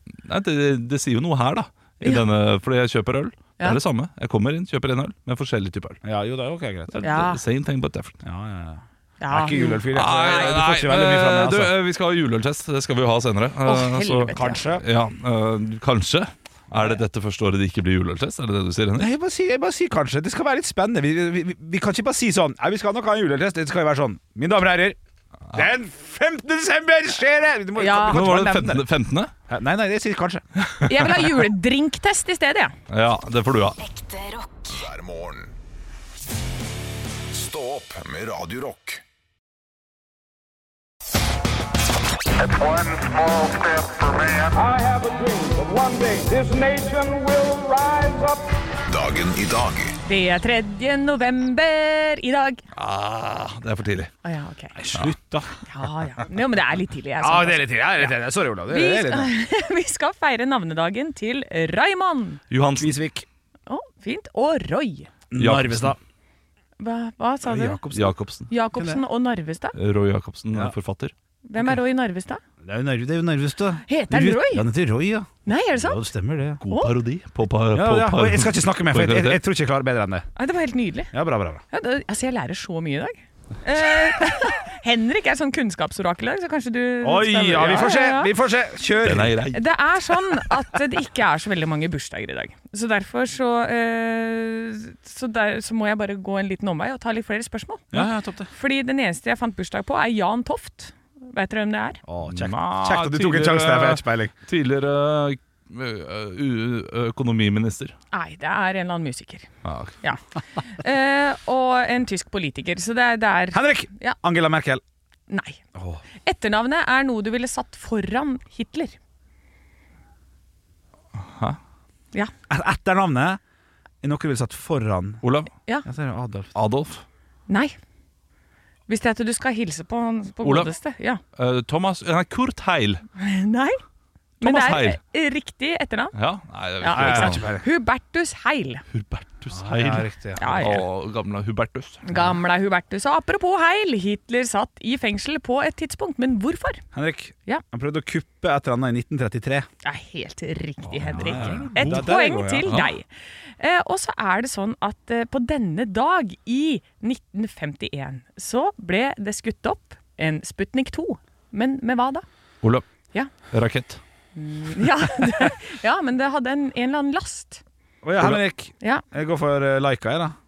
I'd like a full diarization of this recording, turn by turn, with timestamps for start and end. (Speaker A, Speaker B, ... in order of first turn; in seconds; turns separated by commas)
Speaker A: 0.2-6.0, Speaker B: 6.0-7.0, Speaker A: 6.9-8.2, Speaker C: 7.0-7.4, Speaker B: 8.2-11.7, Speaker C: 9.2-10.5, Speaker A: 9.9-19.1, Speaker C: 13.6-14.6, Speaker B: 14.3-14.8, Speaker B: 16.7-17.0, Speaker B: 19.0-25.0, Speaker B: 25.5-28.9, Speaker C: 27.8-28.4, Speaker A: 28.1-29.3, Speaker B: 29.5-30.4, Speaker A: 30.6-31.0, Speaker C: 30.9-32.7, Speaker A: 32.9-33.8, Speaker D: 33.9-35.5, Speaker D: 37.3-39.0, Speaker E: 42.4-48.5, Speaker D: 48.9-50.0, Speaker C: 50.0-52.6, Speaker A: 52.7-54.1, Speaker C: 54.2-54.7, Speaker B: 54.7-55.5, Speaker C: 55.7-58.1, Speaker B: 57.2-59.3, Speaker C: 58.7-62.4, Speaker A: 62.5-63.0, Speaker B: 62.8-63.3, Speaker C: 63.7-65.1, Speaker B: 65.3-66.0, Speaker A: 65.3-65.9, Speaker C: 66.8-67.8, Speaker B: 67.4-68.1, Speaker A: 67.9-68.5, Speaker C: 68.5-69.8, Speaker B: 68.8-69.0, Speaker A: 69.7-71.1, Speaker C: 71.5-72.4, Speaker B: 72.6-76.6, Speaker C: 73.9-74.7, Speaker C: 75.4-76.0, Speaker A: 76.6-79.4, Speaker B: 77.7-80.3, Speaker C: 80.4-81.1, Speaker B: 81.1-81.6, Speaker C: 81.7-88.3, Speaker B: 87.0-89.4, Speaker A: 89.0-89.6, Speaker C: 89.5-98.0, Speaker B: 97.9-98.5, Speaker C: 98.5-102.0, Speaker B: 102.1-104.3, Speaker A: 102.3-107.9, Speaker C: 108.1-109.5, Speaker A: 109.6-110.0, Speaker C: 110.8-114.1, Speaker B: 113.5-114.8, Speaker C: 115.3-115.6, Speaker B: 115.8-116.0, Speaker C: 116.2-119.0, Speaker A: 121.1-121.6, Speaker B: 122.5-123.4, Speaker B: 124.0-125.2, Speaker A: 125.2-125.5, Speaker B: 125.8-126.5, Speaker A: 126.5-127.0, Speaker C: 127.5-127.7, Speaker C: 128.9-131.2, Speaker A: 130.4-130.7, Speaker A: 131.3-133.0, Speaker C: 133.2-133.8, Speaker C: 134.4-136.1, Speaker A: 134.4-135.0, Speaker A: 136.1-137.4, Speaker C: 136.8-138.8, Speaker B: 136.9-137.7, Speaker A: 138.9-142.0, Speaker B: 139.5-140.8, Speaker C: 140.4-140.8, Speaker C: 142.0-146.8, Speaker B: 146.9-149.7, Speaker C: 149.8-153.1, Speaker A: 150.9-152.1, Speaker B: 151.1-152.7, Speaker A: 152.6-152.9, Speaker C: 153.6-162.2, Speaker A: 163.5-164.0, Speaker C: 164.3-167.6, Speaker B: 168.0-170.3